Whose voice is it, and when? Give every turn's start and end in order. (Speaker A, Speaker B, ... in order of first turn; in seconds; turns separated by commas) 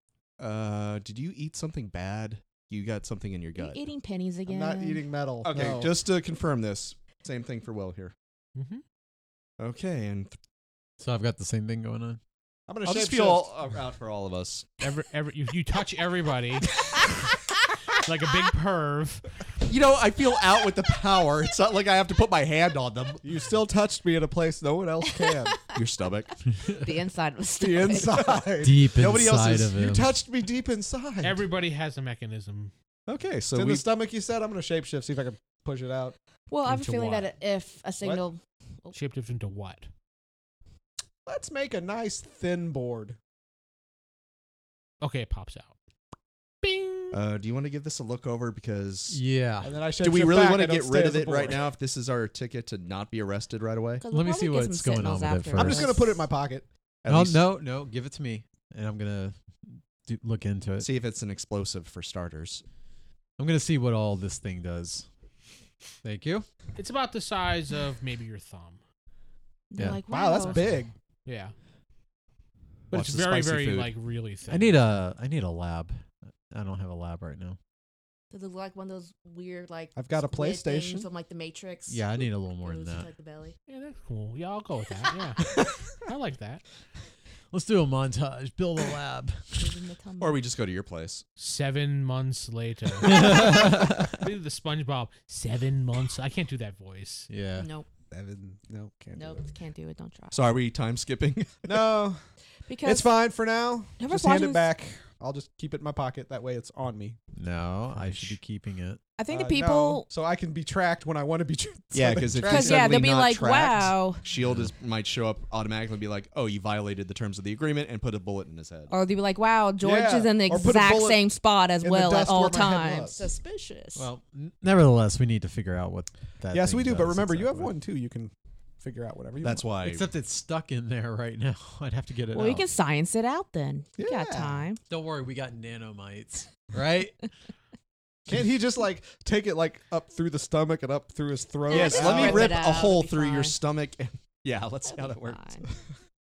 Speaker A: 0.4-3.9, Speaker B: 3.6-5.1, Speaker C: 4.5-6.0, Speaker A: 5.4-8.1, Speaker D: 8.6-8.8, Speaker A: 9.6-10.4, Speaker E: 11.0-12.2, Speaker C: 12.7-13.5, Speaker A: 12.8-14.7, Speaker D: 14.8-16.8, Speaker D: 17.9-19.4, Speaker A: 19.7-23.2, Speaker C: 23.2-25.6, Speaker A: 25.7-26.3, Speaker B: 26.7-28.2, Speaker C: 27.6-28.9, Speaker E: 28.6-30.1, Speaker A: 28.9-29.9, Speaker C: 29.7-31.4, Speaker D: 31.2-32.7, Speaker A: 33.1-33.9, Speaker C: 33.5-36.1, Speaker B: 36.5-39.0, Speaker D: 36.7-37.3, Speaker D: 38.9-39.9, Speaker C: 41.3-43.2, Speaker D: 45.0-45.7, Speaker D: 46.6-47.2, Speaker A: 47.1-49.2, Speaker E: 49.1-49.9, Speaker C: 49.6-51.7, Speaker A: 50.0-54.0, Speaker B: 54.0-56.2, Speaker E: 54.1-55.9, Speaker C: 55.6-56.7, Speaker A: 57.0-57.4, Speaker E: 57.1-60.9, Speaker A: 60.8-62.6, Speaker E: 63.4-65.1, Speaker E: 66.0-66.5, Speaker D: 66.8-68.8, Speaker B: 69.7-70.8, Speaker C: 70.1-70.9, Speaker D: 71.2-71.5, Speaker D: 72.9-74.8, Speaker A: 72.9-73.9, Speaker E: 74.5-77.6, Speaker B: 78.3-83.6, Speaker C: 80.0-81.1, Speaker E: 81.9-83.1, Speaker D: 83.7-86.6, Speaker E: 87.5-89.8, Speaker B: 89.6-90.4, Speaker A: 90.2-91.2, Speaker D: 91.4-97.3, Speaker E: 93.0-94.2, Speaker E: 97.3-97.7, Speaker B: 97.6-97.9, Speaker C: 98.1-99.4, Speaker B: 99.2-100.5, Speaker A: 100.3-101.9, Speaker C: 101.7-102.2, Speaker B: 102.7-103.1, Speaker C: 102.8-107.2, Speaker B: 104.0-104.7, Speaker E: 107.4-109.0, Speaker C: 107.9-108.4, Speaker B: 109.2-110.1, Speaker C: 109.3-113.0, Speaker A: 111.9-118.9, Speaker B: 112.5-114.2, Speaker E: 114.4-114.7, Speaker B: 118.9-124.1, Speaker C: 119.8-121.3, Speaker C: 121.8-123.2, Speaker E: 124.0-127.7, Speaker C: 126.5-129.7, Speaker A: 129.4-130.1, Speaker E: 129.8-132.7, Speaker B: 132.3-134.8, Speaker C: 134.0-134.7, Speaker E: 134.9-137.2, Speaker C: 138.3-142.6, Speaker B: 141.7-143.6, Speaker A: 141.7-145.4, Speaker B: 144.8-145.7